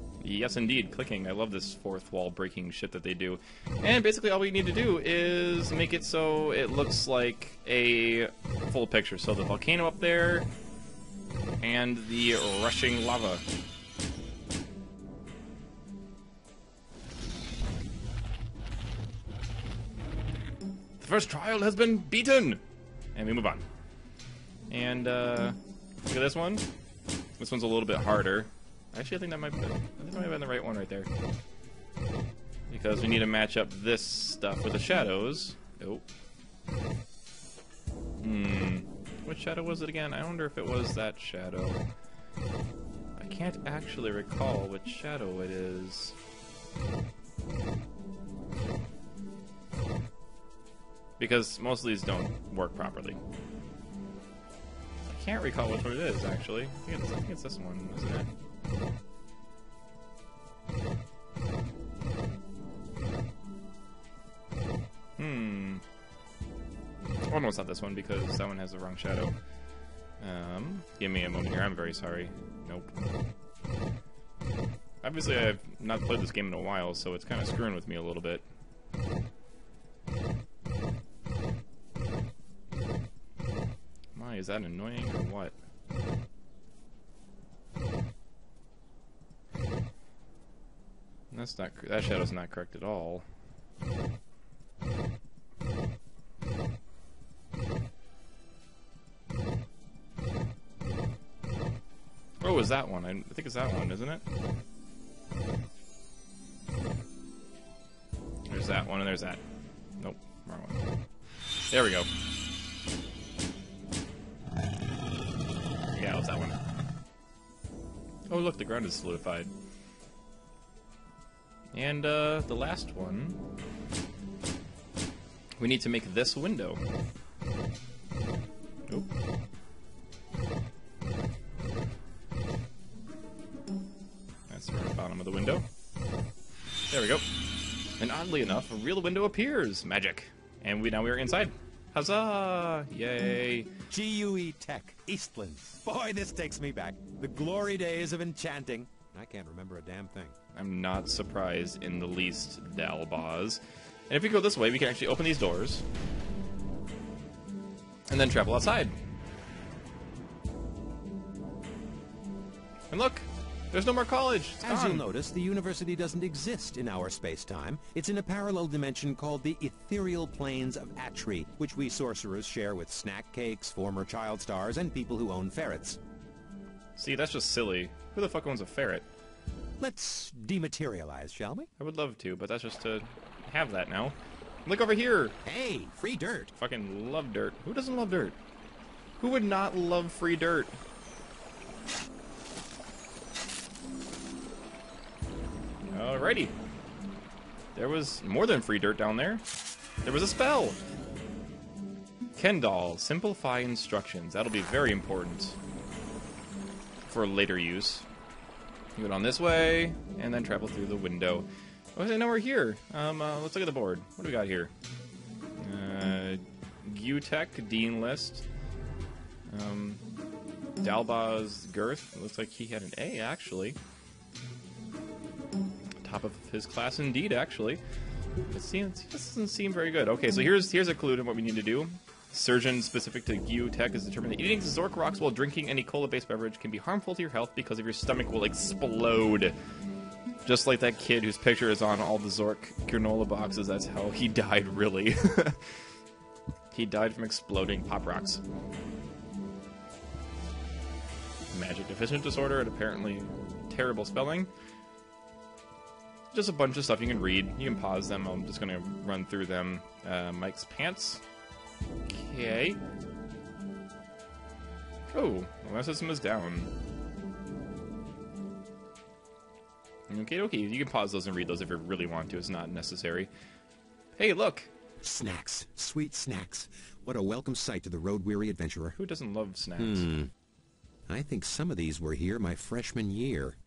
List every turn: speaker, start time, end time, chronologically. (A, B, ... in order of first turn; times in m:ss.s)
0:00.2-0:10.5 A
0:11.6-0:13.4 A
0:21.0-0:22.6 A
0:23.1-0:23.6 A
0:24.7-0:26.6 A
0:27.4-0:31.1 A
0:32.7-0:36.0 A
0:38.2-0:41.8 A
0:43.2-0:46.2 A
0:51.2-0:53.2 A
0:55.1-0:58.3 A
1:05.2-1:05.8 A
1:07.3-1:09.3 A
1:10.2-1:12.9 A
1:15.0-1:18.4 A
1:24.1-1:25.6 A
1:31.3-1:33.2 A
1:42.4-1:44.2 A
1:48.5-1:49.4 A
1:50.0-1:50.8 A
1:51.7-1:52.1 A
1:56.0-1:56.6 A
1:58.3-1:59.5 A
2:01.7-2:03.4 A
2:05.6-2:06.8 A
2:14.5-2:15.6 A
2:16.9-2:17.2 A
2:18.0-2:23.7 A
2:23.9-2:30.4 B
2:30.5-2:35.8 A
2:38.1-2:39.0 A
2:42.9-2:45.0 A
2:44.6-2:56.0 B
2:57.0-2:59.1 A
2:59.8-3:01.7 B
3:01.8-3:05.4 A
3:05.4-3:06.5 B
3:06.6-3:08.4 A
3:09.2-3:10.8 A
3:15.9-3:16.5 A
3:17.8-3:19.4 A
3:20.0-3:20.8 A
3:22.4-3:25.6 A
3:27.1-3:28.1 A
3:29.0-3:34.7 A
3:35.6-3:38.4 A
3:39.5-3:40.0 A
3:40.8-3:43.8 A
3:46.0-3:47.8 A
3:48.5-3:59.5 A
4:00.4-4:05.6 A
4:06.7-4:08.4 A
4:11.5-4:14.5 A
4:16.3-4:21.2 A
4:22.1-4:22.8 A
4:25.1-4:26.7 A
4:30.1-4:33.3 A
4:34.2-4:34.7 A
4:35.0-4:39.0 B
4:39.0-4:40.1 A
4:39.8-4:40.3 B
4:41.1-4:43.6 B